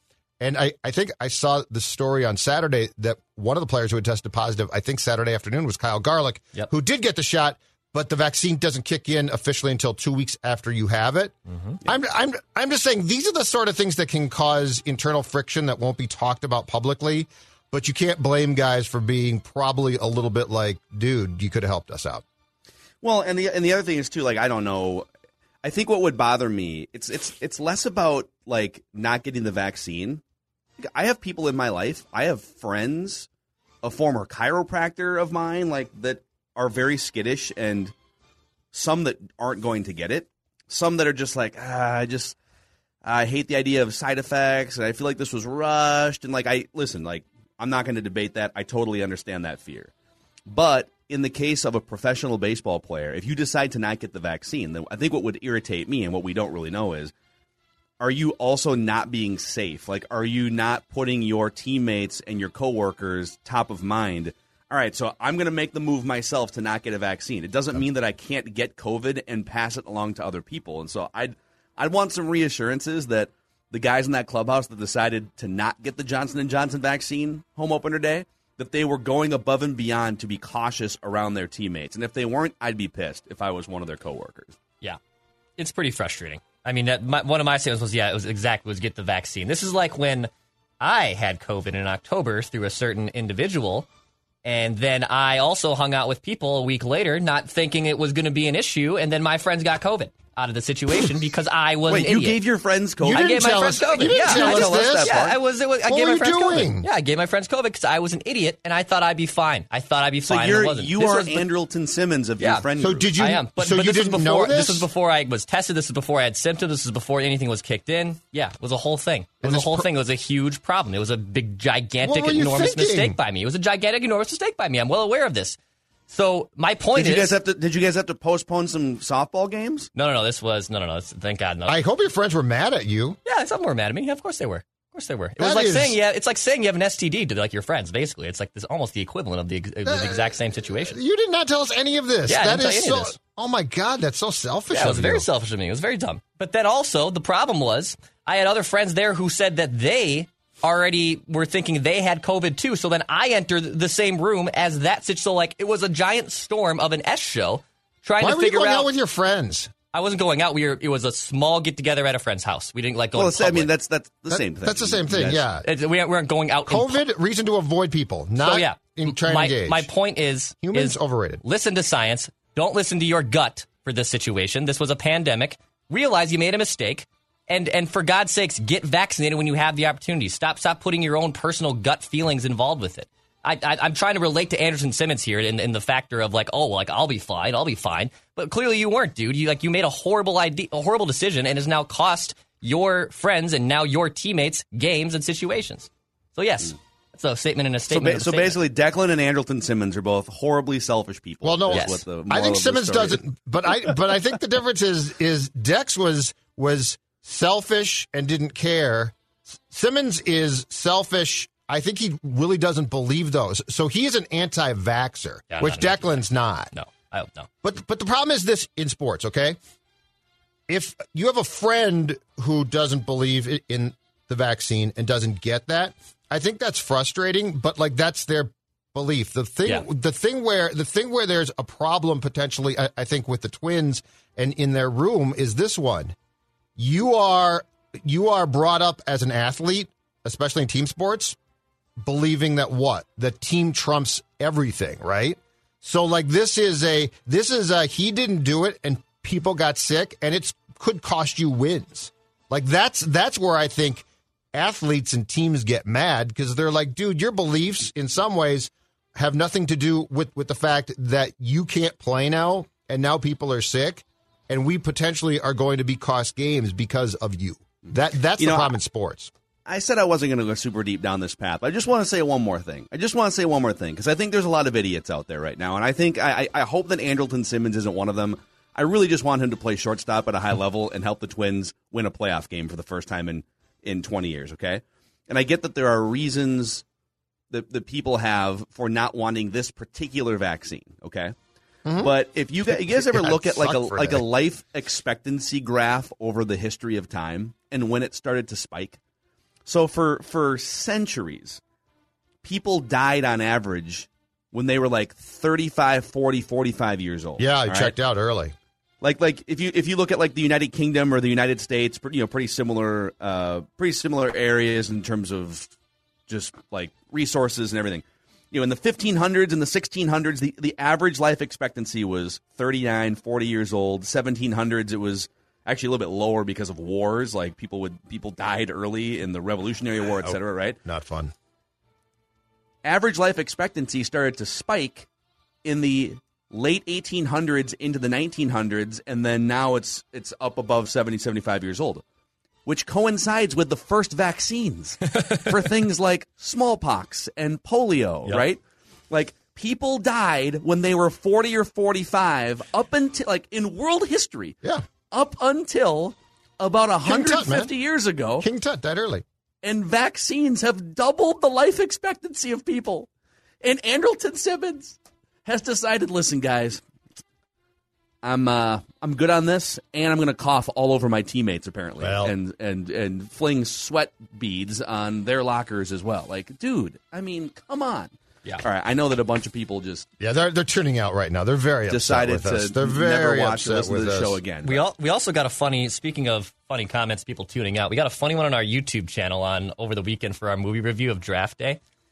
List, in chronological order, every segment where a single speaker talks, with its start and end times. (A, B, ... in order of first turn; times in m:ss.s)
0:00.4-0:22.2 A
0:11.5-0:11.8 B
0:23.0-0:25.1 C
0:25.6-0:30.2 C
0:30.8-0:33.3 C
0:33.8-0:37.9 C
0:38.7-0:42.4 C
0:43.0-0:49.9 C
0:50.5-0:57.1 C
0:58.0-1:24.6 C
1:25.6-1:33.9 B
1:34.4-1:42.4 B
1:41.9-1:45.4 C
1:43.0-1:45.2 A
1:43.1-1:51.4 B
1:45.9-1:46.9 A
1:50.2-1:53.1 C
1:52.4-1:52.6 B
1:52.8-1:54.9 A
1:53.2-2:05.6 B
1:59.4-1:59.9 A
2:02.0-2:03.2 A
2:06.1-2:07.3 B
2:06.9-2:09.9 C
2:09.9-2:11.8 B
2:11.7-2:13.2 A
2:13.2-2:21.0 B
2:15.4-2:16.0 A
2:19.8-2:25.3 A
2:22.2-2:23.1 B
2:24.7-2:38.9 B
2:38.2-2:39.7 A
2:39.9-2:43.7 B
2:43.2-2:45.4 C
2:44.3-2:45.6 A
2:45.6-2:47.0 B
2:46.7-2:49.9 A
2:48.4-3:18.6 B
2:50.6-2:51.4 A
3:17.9-3:23.2 C
3:21.4-3:36.7 A
3:21.7-3:22.0 B
3:35.5-3:37.5 B
3:37.6-3:39.6 A
3:40.7-3:56.1 A
3:56.8-4:01.4 A
4:02.0-4:29.3 A
4:28.4-4:28.7 C
4:29.6-4:46.8 C
4:47.5-4:51.3 C
4:51.8-4:52.1 A
4:52.0-4:59.0 C
4:52.6-4:54.2 A
4:59.6-5:01.6 C
5:02.4-5:07.9 C
5:07.4-5:08.5 A
5:09.0-5:15.7 C
5:16.3-5:30.8 C
5:30.2-5:31.3 A
5:32.8-5:35.1 C
5:35.6-5:42.0 C
5:42.6-5:48.6 C
5:49.1-5:54.6 C
5:55.1-5:58.4 C
5:57.0-5:57.7 A
5:58.4-5:59.2 A
5:59.6-6:03.1 C
6:03.6-6:06.8 C
6:08.2-6:20.0 C
6:12.0-6:12.3 A
6:20.2-6:24.4 A
6:21.9-6:24.8 C
6:24.6-6:31.8 B